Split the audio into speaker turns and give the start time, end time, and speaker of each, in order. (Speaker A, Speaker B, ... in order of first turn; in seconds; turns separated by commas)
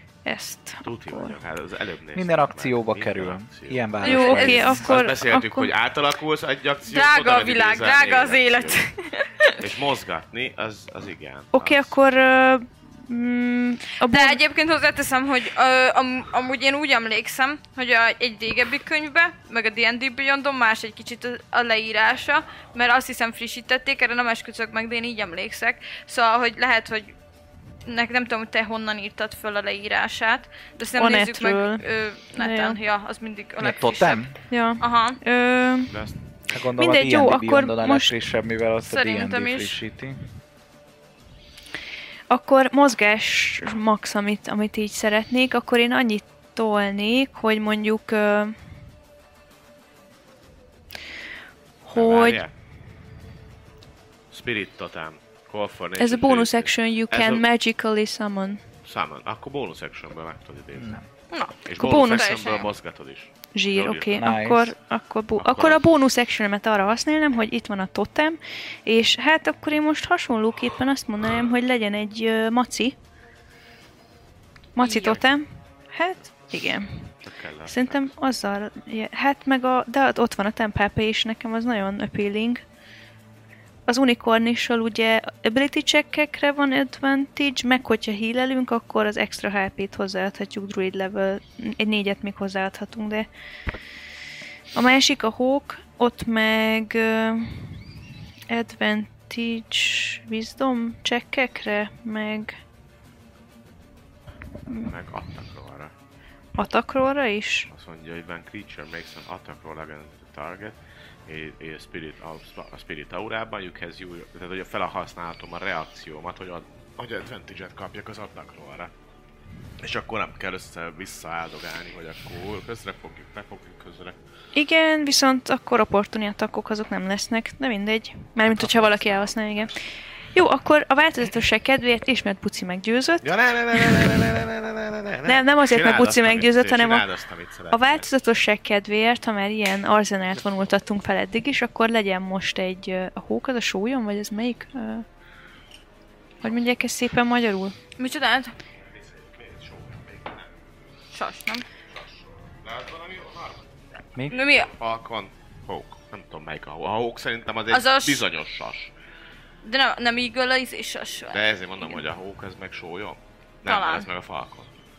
Speaker A: 0.2-1.3, Speaker B: 0.8-8.8, Speaker C: 2.1-4.8, Speaker D: 4.0-4.8, Speaker A: 4.0-5.7, Speaker D: 6.9-9.6, Speaker B: 9.6-11.9, Speaker A: 11.5-14.4, Speaker D: 14.0-27.1, Speaker D: 27.9-34.3, Speaker A: 31.0-32.8, Speaker C: 33.6-34.3, Speaker A: 34.5-35.9, Speaker D: 34.8-35.2, Speaker B: 35.9-36.7, Speaker C: 36.5-40.2, Speaker A: 36.8-38.1, Speaker D: 38.9-39.8, Speaker A: 42.3-48.5, Speaker A: 51.8-52.4, Speaker B: 51.9-52.5, Speaker B: 54.3-57.4, Speaker A: 56.0-58.6, Speaker B: 58.8-61.0, Speaker C: 60.8-61.0, Speaker D: 61.3-62.7, Speaker B: 61.6-64.3, Speaker A: 61.8-62.3, Speaker A: 63.5-73.0, Speaker C: 64.2-64.7, Speaker B: 65.4-65.8, Speaker A: 74.8-77.1, Speaker D: 74.8-75.2, Speaker B: 77.2-78.1, Speaker A: 77.7-82.6, Speaker A: 83.9-93.3, Speaker A: 94.7-97.8, Speaker A: 98.5-102.6, Speaker B: 104.8-105.9, Speaker A: 106.5-107.7, Speaker B: 107.7-118.9, Speaker B: 119.8-124.2, Speaker A: 124.5-129.8, Speaker B: 128.6-129.5, Speaker A: 130.3-133.3, Speaker B: 133.2-138.1, Speaker A: 135.2-137.1, Speaker A: 137.7-145.1, Speaker A: 146.4-147.8, Speaker D: 148.0-148.5, Speaker B: 148.9-150.5, Speaker D: 151.1-151.7, Speaker B: 151.9-153.7, Speaker D: 154.3-154.7, Speaker B: 154.3-158.9, Speaker D: 157.7-158.2, Speaker D: 159.6-161.9, Speaker B: 161.3-164.7, Speaker D: 163.7-164.1